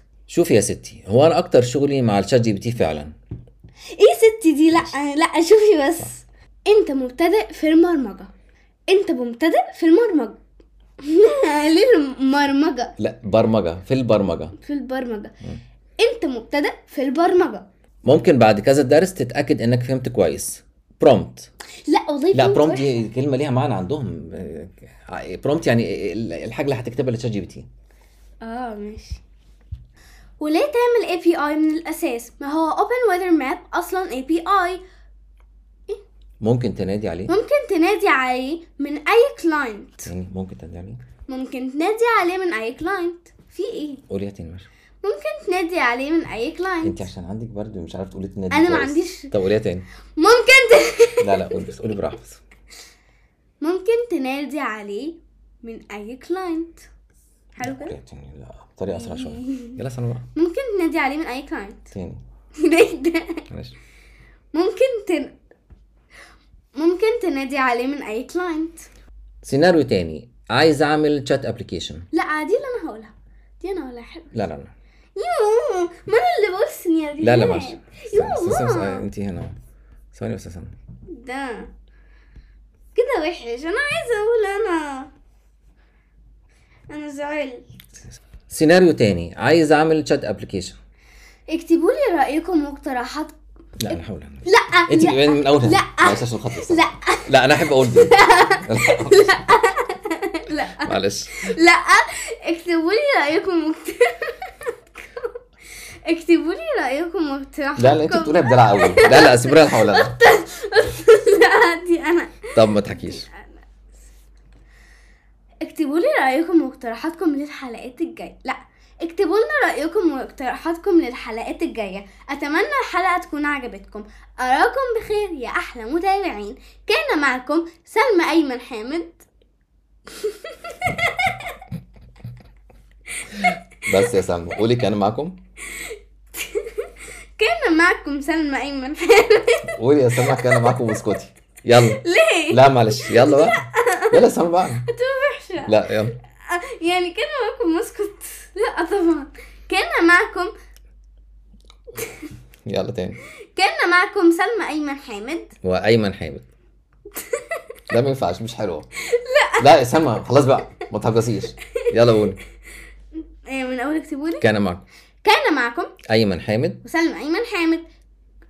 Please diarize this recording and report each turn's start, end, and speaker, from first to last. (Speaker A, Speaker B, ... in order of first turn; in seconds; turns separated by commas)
Speaker A: 0.3-3.1, Speaker B: 4.0-8.3, Speaker B: 8.9-10.4, Speaker B: 11.0-12.9, Speaker A: 13.0-14.6, Speaker B: 14.6-15.4, Speaker B: 16.0-17.7, Speaker A: 18.0-21.5, Speaker B: 21.8-23.0, Speaker A: 22.3-27.7, Speaker B: 28.4-29.2, Speaker B: 30.4-34.8, Speaker A: 36.4-37.4, Speaker B: 37.3-40.1, Speaker A: 40.0-41.0, Speaker B: 41.3-44.0, Speaker A: 44.1-44.7, Speaker B: 45.0-47.0, Speaker A: 46.8-49.9, Speaker B: 48.5-49.3, Speaker B: 50.2-51.7, Speaker A: 51.2-52.4, Speaker B: 53.6-56.8, Speaker B: 57.5-58.0, Speaker A: 57.6-60.2, Speaker B: 58.9-59.8, Speaker B: 60.3-61.9, Speaker A: 61.9-62.2, Speaker B: 62.6-63.5, Speaker A: 63.5-63.7, Speaker B: 64.5-65.3, Speaker B: 66.7-68.9, Speaker A: 69.4-72.1, Speaker B: 72.1-74.3, Speaker A: 74.3-74.7, Speaker B: 75.2-79.0, Speaker A: 77.2-79.5, Speaker A: 80.1-80.7, Speaker B: 81.1-81.7, Speaker B: 82.9-85.1, Speaker B: 86.9-87.7, Speaker A: 88.5-90.8, Speaker B: 91.5-93.3, Speaker A: 93.8-99.3, Speaker B: 93.9-105.3, Speaker A: 100.7-101.4, Speaker B: 106.0-113.5, Speaker A: 107.8-110.2, Speaker A: 112.5-113.3, Speaker B: 115.6-129.2, Speaker B: 130.1-131.6, Speaker A: 133.4-135.3, Speaker B: 135.7-140.8, Speaker A: 139.7-144.9, Speaker B: 141.8-144.2, Speaker B: 144.8-150.5, Speaker A: 145.6-146.2, Speaker B: 152.0-152.2, Speaker A: 152.7-153.2, Speaker B: 153.5-155.5, Speaker A: 155.6-156.5, Speaker B: 157.1-157.8, Speaker A: 157.9-158.9, Speaker B: 159.0-159.8, Speaker A: 159.6-162.4, Speaker B: 163.4-164.4, Speaker A: 164.4-164.8, Speaker B: 165.2-165.9, Speaker A: 166.1-166.8, Speaker B: 166.8-167.8